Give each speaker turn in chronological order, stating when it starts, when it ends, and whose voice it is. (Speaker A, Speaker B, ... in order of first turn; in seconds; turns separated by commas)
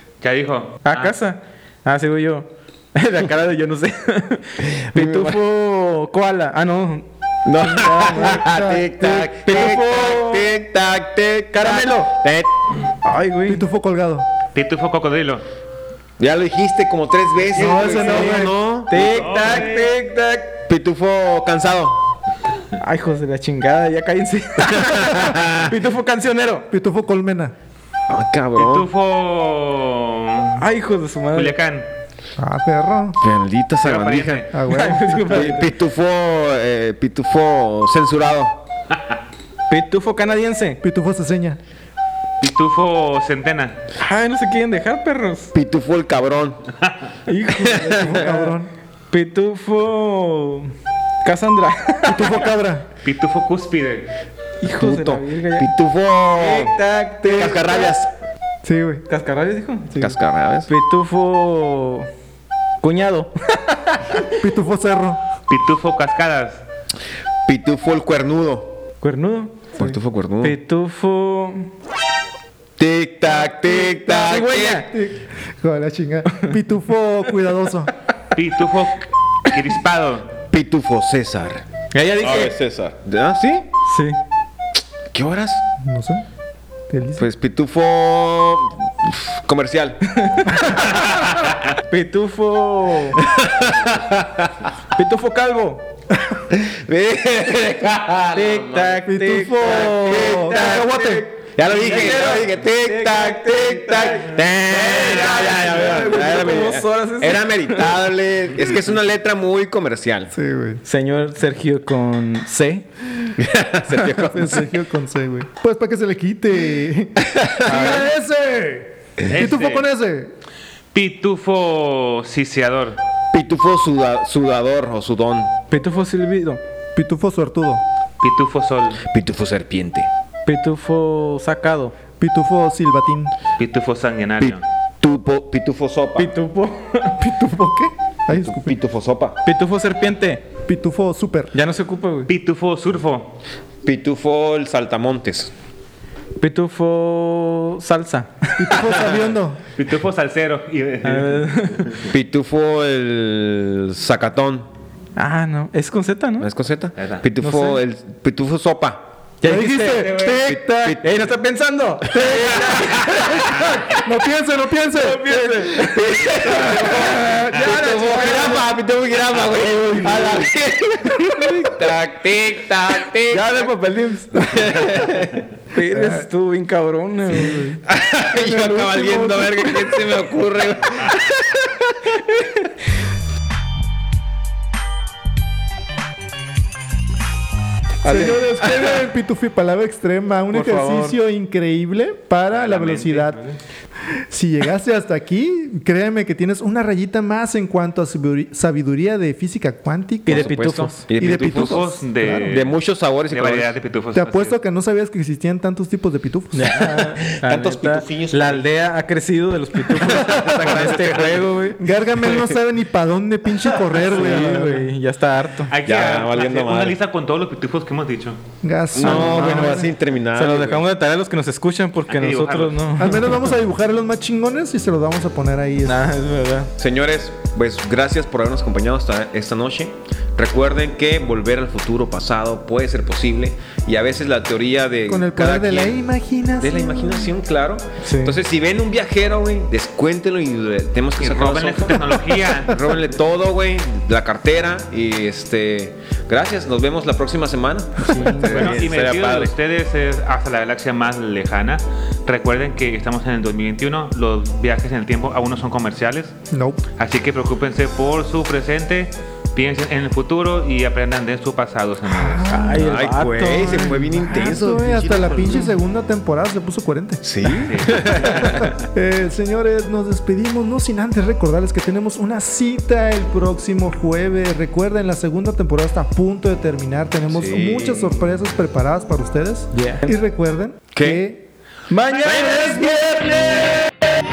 Speaker A: 0.2-1.1, Speaker B: 0.8-7.1, Speaker C: 4.6-5.4, Speaker C: 7.5-12.6, Speaker B: 7.6-8.5, Speaker D: 8.0-9.3, Speaker B: 9.4-10.5, Speaker B: 11.5-12.1, Speaker B: 13.1-13.6, Speaker D: 13.5-14.3, Speaker A: 14.5-15.4, Speaker C: 16.2-19.6, Speaker D: 17.5-18.6, Speaker B: 17.6-20.5, Speaker A: 19.0-19.9, Speaker C: 20.7-22.0, Speaker B: 22.8-26.7, Speaker C: 24.6-25.7, Speaker D: 26.7-27.5, Speaker C: 28.1-28.9, Speaker A: 28.6-30.6, Speaker B: 30.6-31.6, Speaker A: 31.3-31.9, Speaker D: 32.4-33.2, Speaker C: 33.2-34.5, Speaker A: 33.8-34.5, Speaker D: 34.5-35.5, Speaker B: 34.7-35.7, Speaker C: 35.2-38.6, Speaker B: 39.7-40.8, Speaker D: 40.8-41.6, Speaker A: 42.4-43.8, Speaker B: 44.0-45.5, Speaker C: 45.5-46.6, Speaker B: 47.3-48.5, Speaker C: 47.7-48.1, Speaker D: 47.9-48.7, Speaker B: 49.1-50.7, Speaker B: 51.2-52.5, Speaker D: 52.1-52.9, Speaker A: 53.0-54.1, Speaker B: 54.6-55.7, Speaker C: 54.7-58.1, Speaker B: 56.4-58.0, Speaker D: 58.6-59.0, Speaker B: 59.1-60.1, Speaker C: 60.0-60.7, Speaker B: 60.7-62.1, Speaker B: 62.8-64.2, Speaker D: 64.4-65.2, Speaker A: 65.5-66.6, Speaker C: 67.5-68.8, Speaker B: 69.0-69.7, Speaker C: 69.8-70.6, Speaker B: 70.4-71.7, Speaker C: 72.8-74.8, Speaker B: 74.0-74.9, Speaker D: 74.5-77.9, Speaker A: 78.3-80.3, Speaker C: 80.5-81.6, Speaker B: 81.9-82.5, Speaker C: 82.2-83.7, Speaker B: 83.9-84.2, Speaker C: 85.1-85.6, Speaker D: 85.8-86.2, Speaker D: 86.9-87.3, Speaker C: 87.2-91.0, Speaker B: 90.3-90.8, Speaker B: 91.9-93.2, Speaker C: 93.2-94.5, Speaker B: 94.9-95.8, Speaker C: 96.5-99.0, Speaker B: 98.3-107.8, Speaker D: 99.1-101.3, Speaker C: 99.7-110.3, Speaker A: 104.9-105.7, Speaker D: 110.3-110.8, Speaker B: 110.8-112.9, Speaker C: 113.4-114.7, Speaker B: 114.2-114.6, Speaker D: 114.2-120.3, Speaker C: 117.3-118.0, Speaker B: 117.7-118.0, Speaker A: 119.3-119.9, Speaker A: 120.9-123.0, Speaker C: 123.3-125.5, Speaker B: 125.7-126.6, Speaker D: 127.0-127.8, Speaker A: 128.2-129.0, Speaker C: 129.0-130.1, Speaker B: 130.5-131.9, Speaker D: 132.2-133.3, Speaker A: 133.6-134.6, Speaker C: 134.4-136.3, Speaker B: 136.2-137.2, Speaker D: 137.2-138.8, Speaker C: 138.3-139.4, Speaker B: 139.4-140.4, Speaker D: 140.7-141.6, Speaker B: 141.5-142.3, Speaker A: 142.3-143.4, Speaker C: 143.8-145.5, Speaker B: 146.4-148.8, Speaker D: 148.6-149.6, Speaker C: 148.9-149.2, Speaker A: 149.8-152.0, Speaker B: 151.0-152.1, Speaker C: 152.1-154.7, Speaker B: 155.2-156.5, Speaker C: 156.4-159.1, Speaker A: 157.0-157.2, Speaker B: 157.4-157.8, Speaker B: 159.4-160.2, Speaker D: 159.4-161.0, Speaker A: 159.9-160.4, Speaker C: 160.4-161.1, Speaker B: 161.0-163.6, Speaker D: 162.1-165.6, Speaker C: 162.2-163.1, Speaker B: 164.9-168.7, Speaker C: 165.9-173.7, Speaker D: 166.5-167.6, Speaker B: 169.9-170.5, Speaker B: 173.3-174.6, Speaker C: 174.4-175.4, Speaker B: 175.7-177.8, Speaker D: 175.9-176.3, Speaker D: 177.4-177.8, Speaker C: 177.9-182.1, Speaker D: 178.3-179.6, Speaker C: 188.0-189.0, Speaker D: 188.0-193.4, Speaker B: 190.5-191.2, Speaker A: 192.5-193.6, Speaker D: 194.3-202.6, Speaker B: 200.3-201.1, Speaker C: 200.3-201.8, Speaker A: 201.4-204.6, Speaker C: 202.5-203.7, Speaker D: 204.1-206.9, Speaker B: 206.5-211.8, Speaker C: 207.3-208.7, Speaker C: 210.0-211.5, Speaker D: 210.0-210.6, Speaker D: 211.8-214.9, Speaker C: 212.2-212.5, Speaker B: 213.9-215.7, Speaker A: 215.7-218.4, Speaker C: 215.8-217.0, Speaker D: 218.6-219.9, Speaker C: 218.9-220.8, Speaker B: 219.0-223.5, Speaker A: 222.1-222.8, Speaker D: 223.0-226.0, Speaker B: 225.8-226.7, Speaker C: 226.8-236.0, Speaker D: 235.1-237.3, Speaker C: 236.6-249.5, Speaker B: 238.0-238.4, Speaker A: 241.2-242.8, Speaker B: 248.1-248.8, Speaker A: 248.5-256.4, Speaker D: 256.5-256.8, Speaker A: 257.0-262.5, Speaker D: 262.1-262.9, Speaker B: 262.5-264.2, Speaker C: 262.7-265.7, Speaker D: 264.1-281.4, Speaker C: 267.2-268.7, Speaker A: 267.7-268.7, Speaker C: 277.3-278.2, Speaker B: 279.7-280.2, Speaker C: 280.9-281.2, Speaker B: 281.9-282.9, Speaker C: 282.2-283.9